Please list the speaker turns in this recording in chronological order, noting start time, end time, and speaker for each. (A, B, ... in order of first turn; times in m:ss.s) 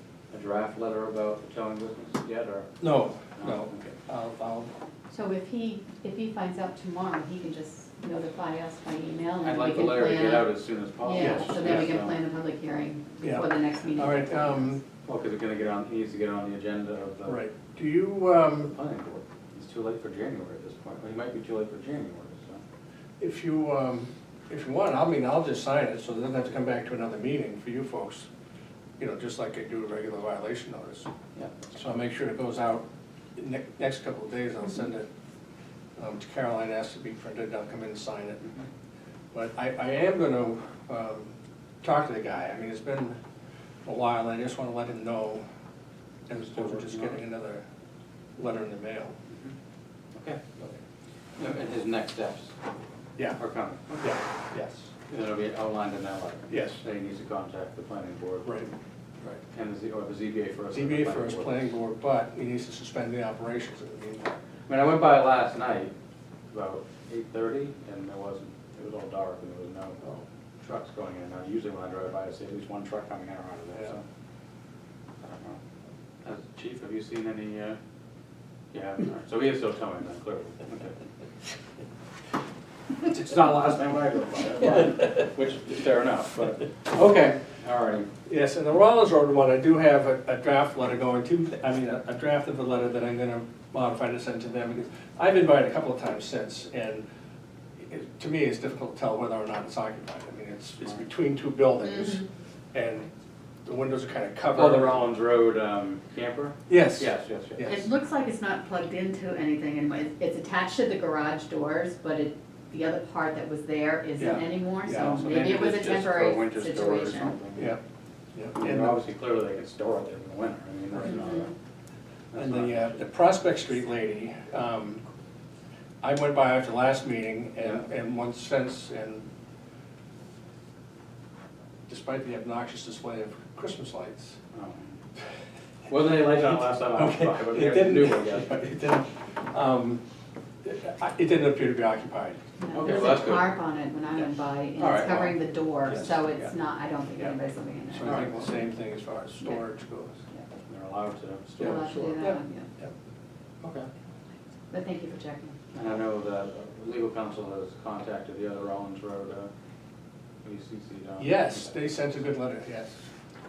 0:00.3-0:04.0 A
0:02.8-0:04.7 B
0:05.1-0:14.8 C
0:09.4-0:12.2 A
0:11.2-0:12.0 B
0:13.2-0:14.8 B
0:15.0-0:17.4 A
0:17.2-0:18.7 B
0:18.6-0:22.6 A
0:23.2-0:28.3 B
0:29.0-0:31.1 B
0:31.7-0:35.1 B
0:36.0-0:38.4 B
0:38.4-0:38.7 A
0:39.3-0:43.2 B
0:43.8-0:45.4 B
0:46.3-0:47.6 B
0:46.4-0:47.2 A
0:48.4-0:49.2 B
0:49.3-0:49.5 A
0:50.1-0:50.6 A
0:51.4-0:52.5 A
0:53.4-0:54.2 A
0:53.9-0:54.9 B
0:55.1-0:58.7 A
0:56.5-0:56.8 B
0:58.4-0:58.7 B
0:59.2-1:01.7 A
1:00.7-1:04.3 B
1:04.7-1:05.9 A
1:06.5-1:10.0 A
1:10.6-1:14.0 A
1:15.2-1:15.6 A
1:16.2-1:17.8 A
1:18.7-1:21.0 A
1:23.1-1:24.0 B
1:23.1-1:28.1 A
1:24.6-1:25.3 B
1:28.3-1:37.0 B
1:37.8-1:43.1 B
1:41.8-1:42.2 C
1:43.6-1:45.1 B
1:44.5-1:47.8 A
1:46.7-1:47.8 B
1:47.6-1:57.4 C
1:54.2-1:55.4 B
1:55.1-1:57.8 A
1:57.5-1:57.8 B
1:58.3-1:59.0 B
1:58.6-2:01.5 A
2:01.0-2:01.4 C
2:02.3-2:03.1 A
2:02.3-2:05.0 B
2:06.0-2:09.3 B
2:11.9-2:14.4 B
2:14.5-2:15.0 A
2:15.9-2:18.6 A
2:16.0-2:20.0 B
2:20.6-2:22.4 B
2:22.6-2:28.5 C
2:22.7-2:23.5 A
2:24.8-2:25.4 A
2:25.9-2:26.5 B
2:27.9-2:30.2 B
2:28.0-2:28.4 A
2:30.7-2:32.2 A
2:31.6-2:32.9 B
2:31.6-2:32.7 C
2:33.6-2:33.9 A
2:34.7-2:36.0 C
2:35.7-2:39.5 A
2:40.4-2:42.0 A
2:41.2-2:43.0 B